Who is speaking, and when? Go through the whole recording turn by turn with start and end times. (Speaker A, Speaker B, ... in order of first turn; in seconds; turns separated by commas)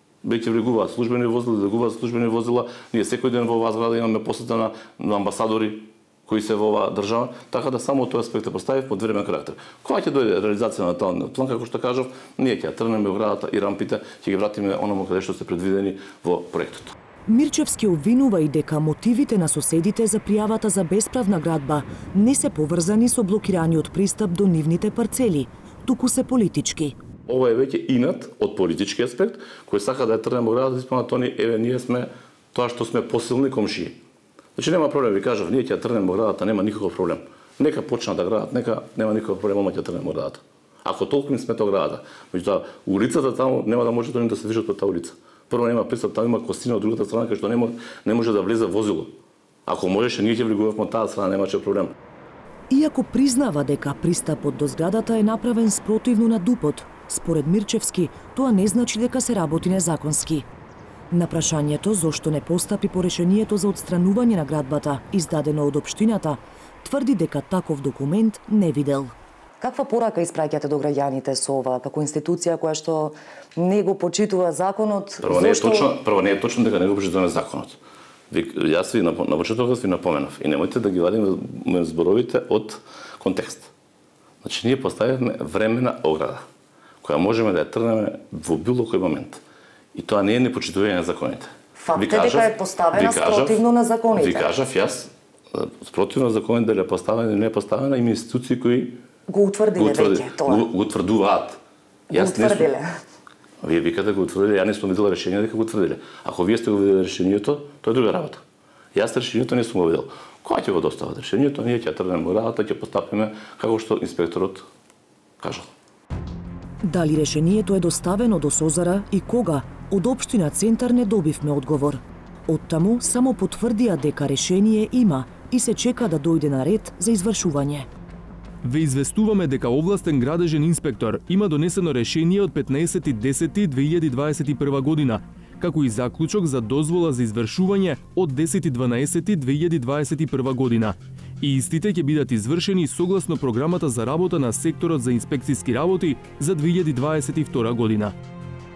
Speaker A: 0.2-16.9, Speaker B: 17.3-27.0, Speaker A: 27.3-34.0, Speaker A: 34.6-49.2, Speaker A: 49.7-51.9, Speaker B: 52.7-60.5, Speaker B: 61.1-69.1, Speaker C: 69.6-75.9, Speaker A: 75.2-77.8, Speaker A: 78.3-83.7, Speaker A: 84.4-86.4, Speaker A: 87.0-89.4, Speaker A: 90.0-99.0, Speaker C: 91.8-94.5, Speaker C: 99.3-100.7, Speaker A: 99.8-101.6, Speaker C: 102.1-102.9, Speaker A: 102.1-102.7, Speaker A: 103.6-108.4, Speaker A: 109.0-114.7, Speaker A: 115.4-115.7, Speaker B: 116.8-127.9, Speaker D: 128.6-148.1